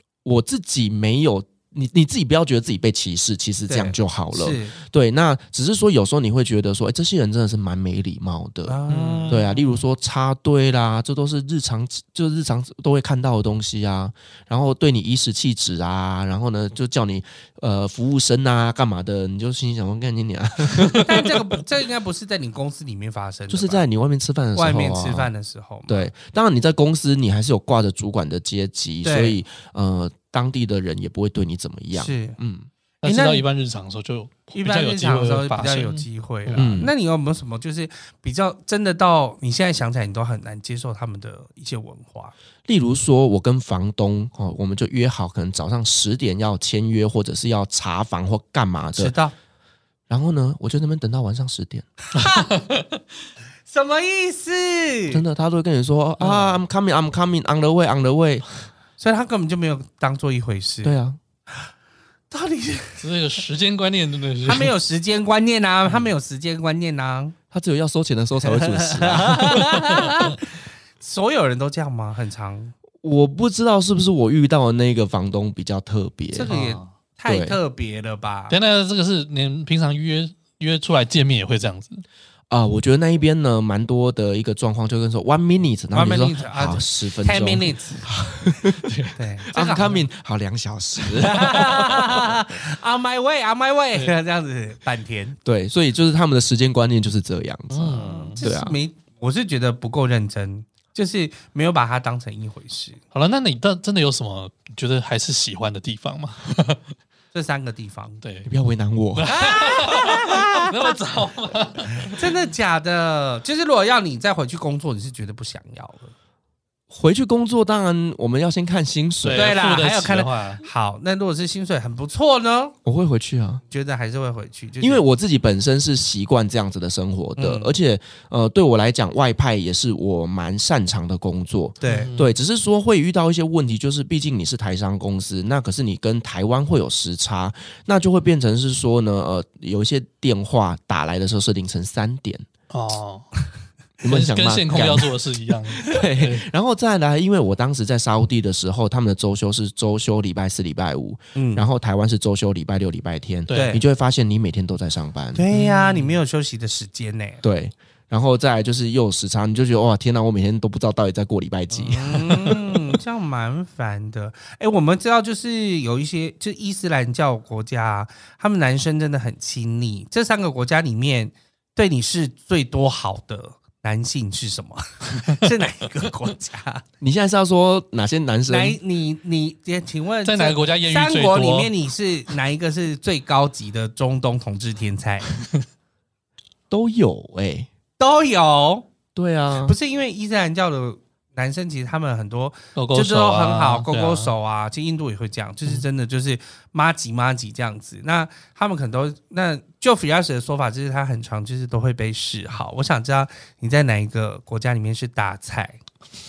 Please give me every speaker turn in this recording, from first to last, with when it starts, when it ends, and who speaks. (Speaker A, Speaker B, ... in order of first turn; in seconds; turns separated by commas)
Speaker A: 0.2-21.3, Speaker B: 3.7-4.8, Speaker B: 8.7-9.4, Speaker C: 8.9-9.5, Speaker B: 21.1-23.8, Speaker A: 23.5-25.3, Speaker B: 24.6-26.1, Speaker A: 25.9-32.7, Speaker B: 29.0-29.4, Speaker B: 31.9-32.4, Speaker C: 33.0-36.9, Speaker B: 33.0-33.5, Speaker B: 34.5-42.3, Speaker A: 36.6-36.9, Speaker A: 42.7-49.1, Speaker B: 49.0-49.3, Speaker A: 50.1-51.9, Speaker B: 52.1-52.5, Speaker B: 53.7-55.2, Speaker A: 55.1-58.5, Speaker C: 56.2-56.6, Speaker B: 59.0-61.0, Speaker A: 60.8-61.2, Speaker B: 62.3-63.1, Speaker C: 63.0-64.7, Speaker B: 64.5-67.3, Speaker A: 67.5-69.9, Speaker B: 68.4-72.7, Speaker A: 73.0-76.5, Speaker B: 76.3-78.6, Speaker C: 76.5-76.9, Speaker A: 77.3-77.6, Speaker C: 78.5-82.0, Speaker A: 82.5-89.0, Speaker B: 85.9-88.1, Speaker C: 88.8-89.2, Speaker B: 89.2-90.0, Speaker A: 89.5-92.3, Speaker B: 91.2-95.4, Speaker A: 95.5-98.8, Speaker C: 97.7-98.4, Speaker B: 98.1-103.0, Speaker C: 103.1-106.8, Speaker B: 107.3-108.2, Speaker C: 108.2-108.5, Speaker A: 108.5-109.3, Speaker C: 109.2-112.3, Speaker B: 109.3-111.0, Speaker B: 112.0-116.1, Speaker A: 116.9-119.6, Speaker C: 119.2-120.7, Speaker B: 119.3-122.8, Speaker A: 122.8-123.6, Speaker B: 123.7-125.0, Speaker A: 124.8-142.5, Speaker B: 127.4-127.7, Speaker B: 131.8-132.1, Speaker C: 131.8-132.4, Speaker C: 142.7-143.3, Speaker A: 144.0-145.1, Speaker C: 144.1-146.5, Speaker A: 145.8-155.4, Speaker B: 151.3-151.6, Speaker C: 153.5-153.7, Speaker B: 153.5-153.8, Speaker B: 155.3-157.4, Speaker C: 155.5-156.2, Speaker A: 157.4-162.7, Speaker B: 161.7-176.8, Speaker A: 177.0-178.8, Speaker B: 178.5-185.3, Speaker C: 180.2-181.7, Speaker C: 185.3-185.6, Speaker A: 186.7-187.7, Speaker B: 188.0-188.9, Speaker A: 189.2-189.8, Speaker B: 189.6-205.8, Speaker C: 192.8-194.3